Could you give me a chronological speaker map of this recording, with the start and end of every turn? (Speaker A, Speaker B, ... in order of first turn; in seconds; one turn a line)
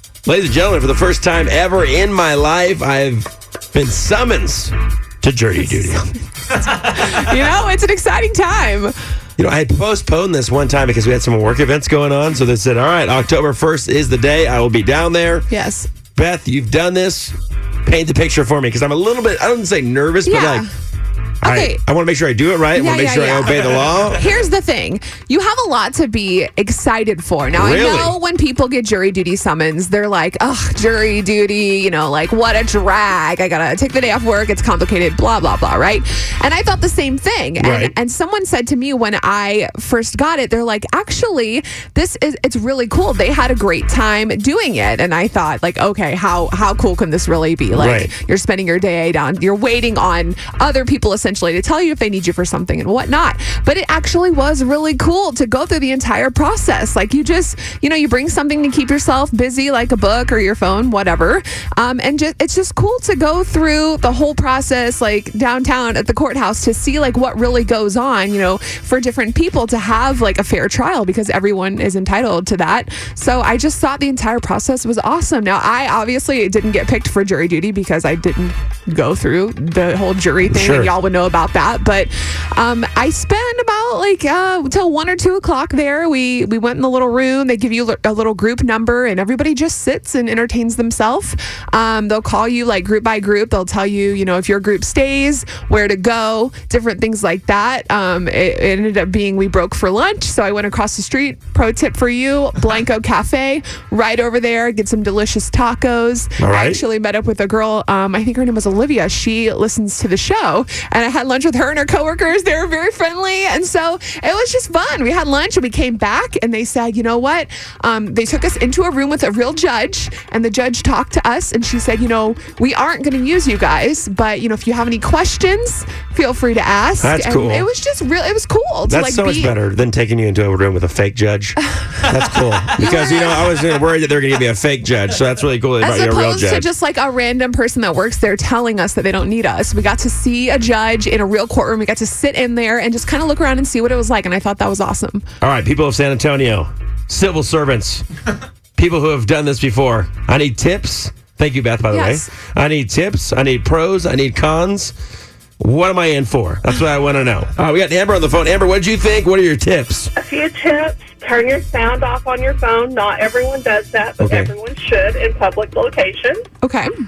Speaker A: 0.3-6.0
Speaker B: 5.6-8.9
Speaker A: 9.4-15.5
Speaker B: 15.5-15.9
Speaker A: 16.1-20.7
Speaker B: 20.2-20.7
Speaker B: 21.4-21.8
Speaker A: 21.4-24.3
Speaker B: 22.7-129.5
Speaker A: 27.5-28.2
Speaker A: 37.6-37.9
Speaker A: 47.7-48.1
Speaker A: 80.5-80.9
Speaker A: 106.4-106.8
Speaker A: 127.0-127.7
Speaker A: 128.9-136.7
Speaker B: 132.8-133.5
Speaker B: 135.8-145.3
Speaker A: 145.4-148.0
Speaker A: 148.8-154.9
Speaker B: 151.9-152.3
Speaker A: 155.6-160.1
Speaker C: 160.2-166.4
Speaker A: 164.2-164.5
Speaker B: 166.6-166.9